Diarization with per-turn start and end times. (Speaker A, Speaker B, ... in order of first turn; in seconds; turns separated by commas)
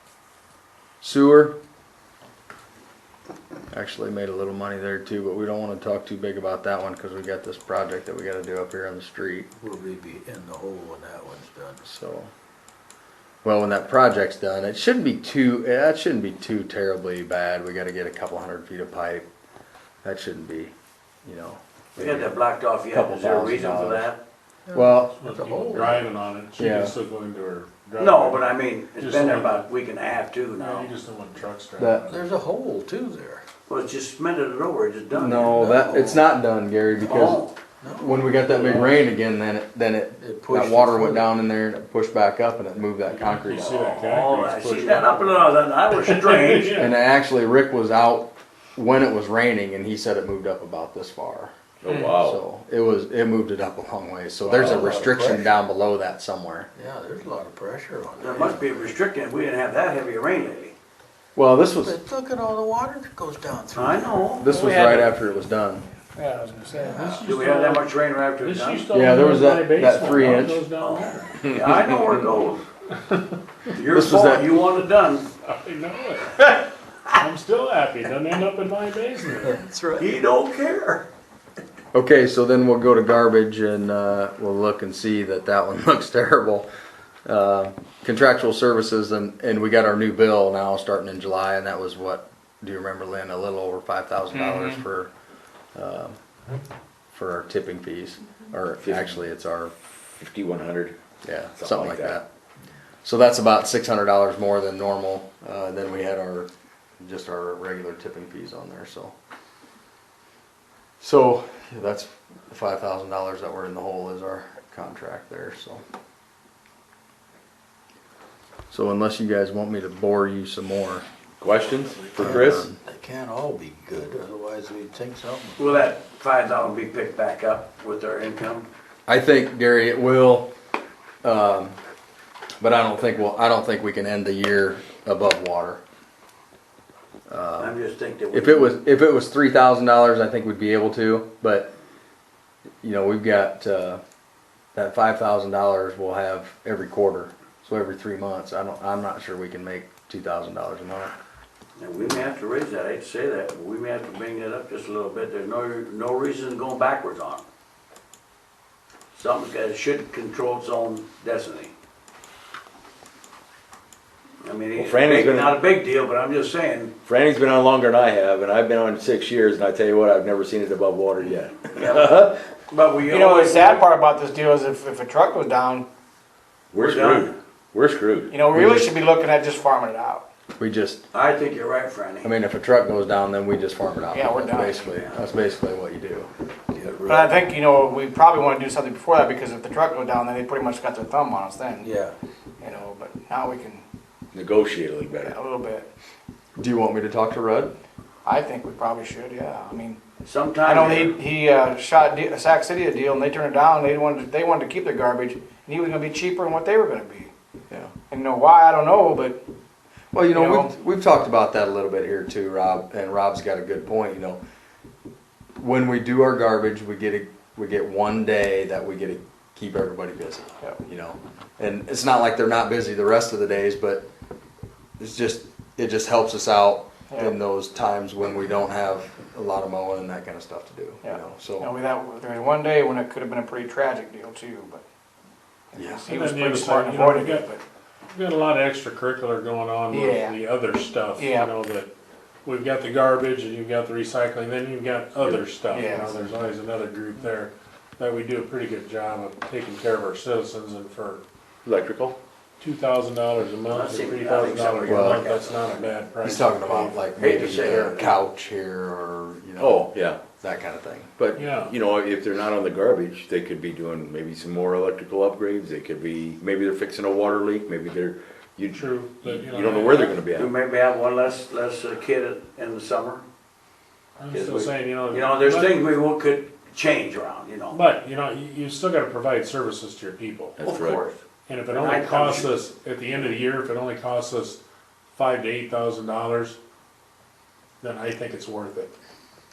Speaker A: 1.0-1.6, Speaker A: 3.7-9.5, Speaker B: 9.6-11.8, Speaker A: 11.8-12.3, Speaker A: 13.4-19.3, Speaker A: 20.0-20.7, Speaker A: 21.2-22.3, Speaker C: 22.0-24.2, Speaker A: 22.9-24.1, Speaker B: 24.7-26.1, Speaker A: 24.7-25.1, Speaker D: 25.1-29.6, Speaker A: 26.6-27.0, Speaker C: 28.0-30.9, Speaker D: 30.6-32.2, Speaker A: 31.8-32.0, Speaker B: 32.1-33.4, Speaker C: 33.7-36.1, Speaker A: 35.1-37.4, Speaker B: 35.5-36.2, Speaker C: 36.9-37.6, Speaker B: 37.8-39.0, Speaker A: 38.0-43.8, Speaker B: 40.2-41.3, Speaker D: 43.0-46.9, Speaker C: 43.5-46.9, Speaker A: 46.8-51.5, Speaker E: 51.8-52.4, Speaker A: 52.0-56.7, Speaker B: 54.5-55.5, Speaker E: 54.5-54.9, Speaker B: 56.7-58.9, Speaker C: 58.2-60.7, Speaker A: 61.3-61.9, Speaker B: 61.8-64.4, Speaker C: 63.7-64.5, Speaker A: 64.4-65.8, Speaker D: 64.6-65.0, Speaker F: 66.2-67.0, Speaker B: 66.7-67.2, Speaker D: 66.9-67.9, Speaker C: 67.2-68.9, Speaker D: 68.4-71.4, Speaker A: 68.9-70.6, Speaker C: 70.8-72.6, Speaker D: 72.9-73.4, Speaker C: 73.7-75.3, Speaker A: 73.9-74.5, Speaker D: 75.4-76.6, Speaker D: 77.1-79.5, Speaker B: 79.4-80.2, Speaker C: 80.0-81.1, Speaker A: 81.9-86.7, Speaker A: 87.2-95.1, Speaker F: 94.5-94.8, Speaker A: 95.7-96.1, Speaker A: 97.1-99.7, Speaker E: 98.8-99.2, Speaker E: 100.2-101.0, Speaker A: 101.2-102.2, Speaker E: 101.6-102.2, Speaker A: 103.0-106.5, Speaker A: 107.0-109.1, Speaker A: 111.0-115.8, Speaker A: 118.7-121.0, Speaker E: 121.4-122.7, Speaker A: 122.2-122.7, Speaker B: 122.2-125.9, Speaker C: 125.6-128.7, Speaker A: 129.1-130.5, Speaker A: 131.2-131.8, Speaker A: 132.6-135.8, Speaker A: 137.3-137.7, Speaker C: 137.6-138.8, Speaker A: 138.3-141.7, Speaker A: 142.8-144.0, Speaker A: 144.7-151.1, Speaker C: 151.8-157.4, Speaker C: 159.1-161.7, Speaker C: 164.4-166.9, Speaker E: 164.8-165.6, Speaker E: 167.0-172.4, Speaker C: 171.6-173.8, Speaker F: 173.1-175.9, Speaker E: 176.7-178.3, Speaker C: 176.8-177.3, Speaker F: 178.3-180.2, Speaker A: 178.5-178.9, Speaker A: 180.6-181.0, Speaker C: 181.1-182.3, Speaker A: 182.2-186.3, Speaker F: 184.1-185.0, Speaker B: 186.7-187.2, Speaker E: 187.0-187.4, Speaker F: 187.1-191.9, Speaker B: 191.8-192.1, Speaker F: 192.6-193.8, Speaker E: 194.3-195.3, Speaker F: 195.2-195.9, Speaker A: 196.6-197.7, Speaker F: 198.2-200.0, Speaker C: 200.2-201.2, Speaker F: 200.6-207.3, Speaker F: 208.1-209.4, Speaker A: 210.1-214.4, Speaker F: 210.3-210.7, Speaker A: 215.6-224.1, Speaker A: 225.0-231.7, Speaker F: 231.0-234.8, Speaker F: 235.7-237.6, Speaker A: 235.8-236.1, Speaker D: 236.1-237.5, Speaker D: 238.1-241.9, Speaker F: 239.9-240.4, Speaker F: 241.2-241.5, Speaker D: 242.4-251.2, Speaker E: 245.2-245.5, Speaker F: 245.7-246.3, Speaker E: 251.6-252.2, Speaker D: 252.6-257.0, Speaker C: 253.7-255.9, Speaker A: 254.9-255.2, Speaker A: 256.2-261.1, Speaker C: 257.1-258.2, Speaker E: 259.6-260.2, Speaker E: 261.2-270.5, Speaker D: 261.3-261.7, Speaker D: 268.7-270.2, Speaker C: 270.3-273.2, Speaker D: 274.2-275.8, Speaker C: 274.3-277.8, Speaker D: 277.7-280.6, Speaker E: 280.6-281.0, Speaker C: 280.6-282.5, Speaker D: 281.5-284.6, Speaker D: 285.1-286.6, Speaker D: 287.8-288.9